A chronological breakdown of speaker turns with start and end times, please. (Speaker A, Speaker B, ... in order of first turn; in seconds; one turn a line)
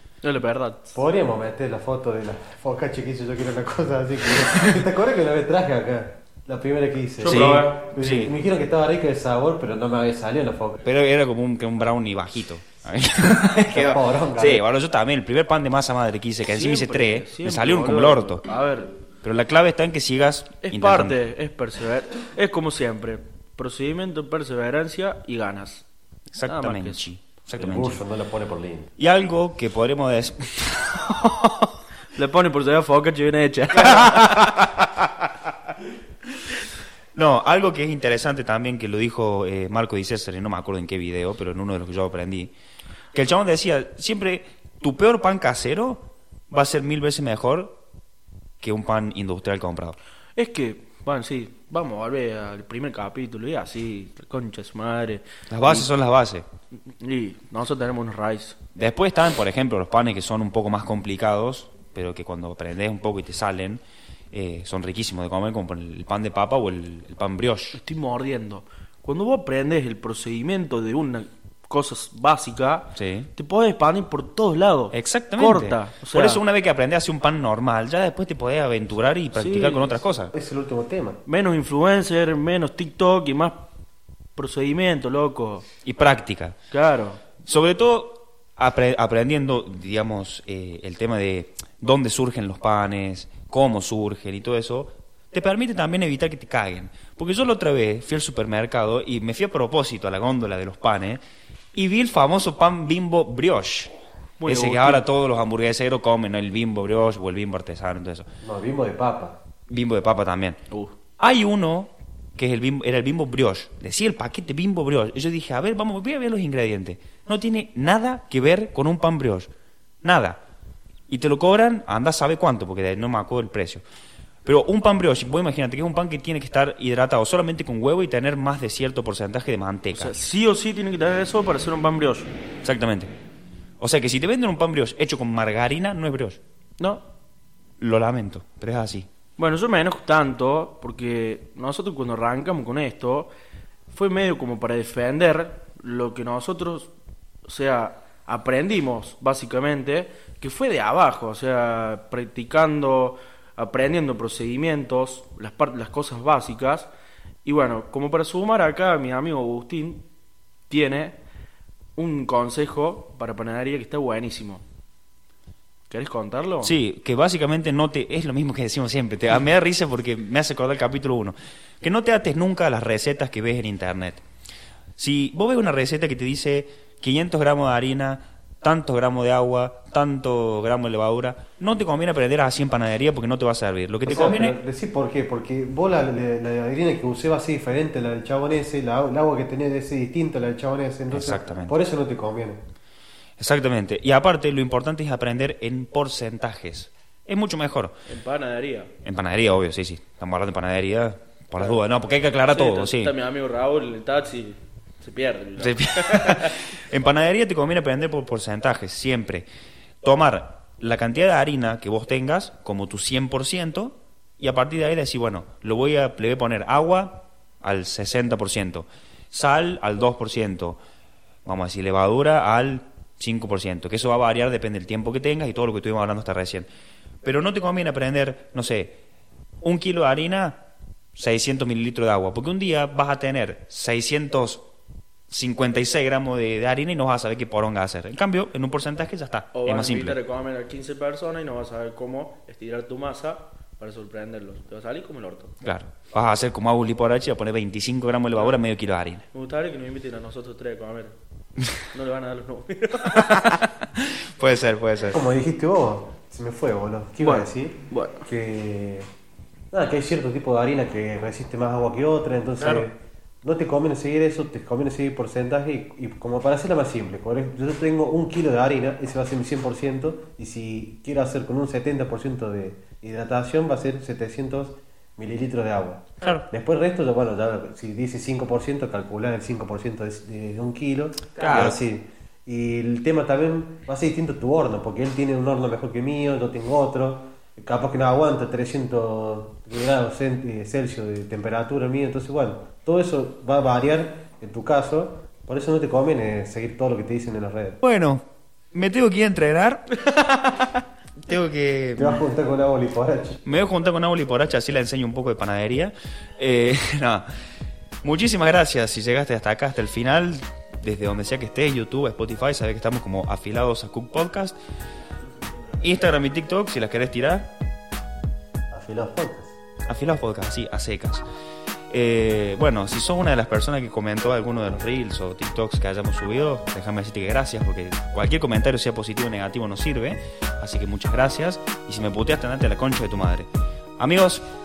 Speaker A: 0.2-1.0
Speaker B: 0.9-10.8
Speaker A: 7.2-7.8
Speaker C: 7.3-8.3
Speaker C: 10.8-18.4
Speaker B: 13.7-14.7
Speaker A: 16.5-18.9
Speaker C: 19.2-21.2
Speaker A: 20.6-25.9
Speaker C: 26.3-28.0
Speaker A: 26.5-27.0
Speaker B: 27.6-28.9
Speaker C: 29.0-31.7
Speaker A: 32.1-35.1
Speaker C: 33.8-34.7
Speaker C: 37.2-42.5
Speaker C: 43.1-47.8
Speaker C: 48.6-50.0
Speaker A: 50.4-55.9
Speaker C: 55.5-56.5
Speaker A: 56.9-58.6
Speaker C: 58.8-63.8
Speaker C: 64.3-67.8
Speaker A: 67.7-76.4
Speaker C: 73.0-73.3
Speaker C: 74.9-80.3
Speaker A: 79.3-80.0
Speaker B: 80.3-81.2
Speaker A: 81.3-83.7
Speaker A: 84.4-85.7
Speaker C: 85.8-86.6
Speaker A: 86.7-87.2
Speaker C: 87.4-101.2
Speaker C: 101.7-103.9
Speaker A: 104.4-105.0
Speaker C: 104.5-108.3
Speaker B: 108.4-109.4
Speaker C: 109.7-110.6
Speaker C: 111.2-119.5
Speaker C: 120.0-120.4
Speaker C: 121.1-123.8
Speaker C: 124.5-130.1
Speaker A: 129.9-132.3
Speaker C: 132.6-133.1
Speaker C: 133.8-136.4
Speaker C: 137.8-139.1
Speaker A: 139.4-143.3
Speaker A: 143.9-146.9
Speaker A: 147.4-156.9
Speaker A: 157.4-160.1
Speaker A: 160.7-161.2
Speaker A: 162.0-164.6
Speaker A: 165.9-166.7
Speaker C: 166.6-174.2
Speaker C: 175.0-184.6
Speaker B: 184.1-192.6
Speaker C: 191.1-191.8
Speaker C: 193.4-198.0
Speaker A: 198.1-198.9
Speaker C: 199.0-203.1
Speaker A: 202.5-206.6
Speaker C: 205.6-209.5
Speaker C: 210.0-220.8
Speaker C: 221.4-226.7
Speaker C: 227.2-229.0
Speaker C: 229.6-230.6
Speaker C: 231.2-234.7
Speaker C: 235.3-240.2
Speaker A: 239.5-245.6
Speaker C: 245.6-249.3
Speaker A: 249.3-251.2
Speaker A: 251.9-253.5
Speaker C: 253.1-255.2
Speaker B: 255.1-259.1
Speaker A: 257.2-258.2
Speaker B: 259.7-297.8
Speaker C: 281.4-281.8
Speaker C: 297.8-300.0
Speaker C: 301.2-302.2
Speaker B: 302.0-303.4
Speaker C: 303.4-307.3
Speaker C: 308.0-314.6
Speaker C: 315.8-317.5
Speaker B: 318.7-319.6
Speaker C: 319.9-321.3
Speaker C: 321.9-333.5
Speaker C: 334.0-334.5